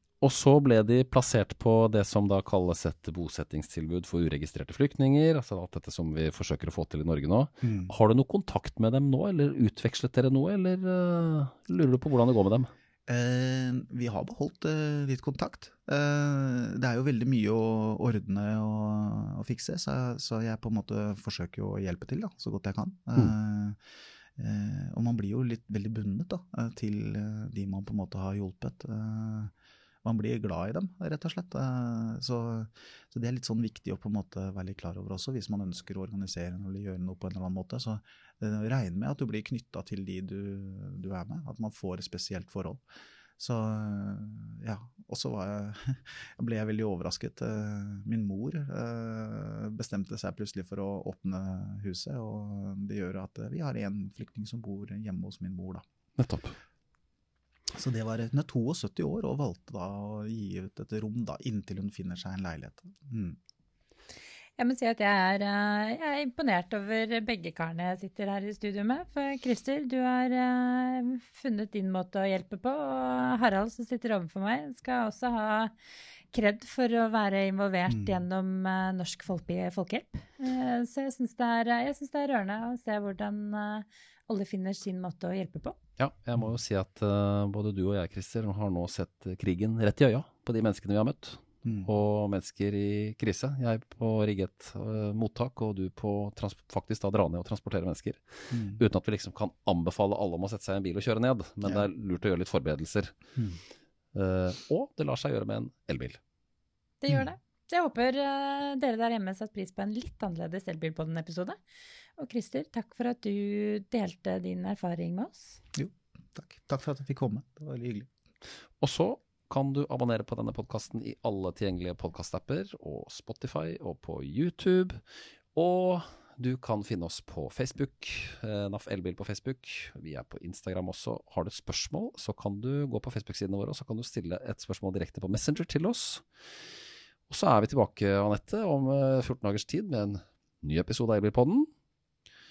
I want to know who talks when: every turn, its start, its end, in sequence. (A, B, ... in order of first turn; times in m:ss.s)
0:00.2-0:12.7 A
0:07.6-0:07.9 B
0:13.1-0:23.8 B
0:24.4-0:29.5 B
0:30.0-0:42.8 B
0:43.4-0:55.8 B
0:56.2-0:56.6 A
0:57.7-1:03.4 B
1:04.6-1:15.7 C
1:16.3-1:25.8 C
1:17.9-1:18.2 B
1:26.0-1:43.1 A
1:38.5-1:38.8 B
1:44.1-1:46.2 A
1:47.0-1:51.6 C
1:52.2-1:55.6 C
1:55.7-1:58.1 B
1:58.8-2:05.0 A
2:05.5-2:16.2 A
2:17.3-2:21.7 A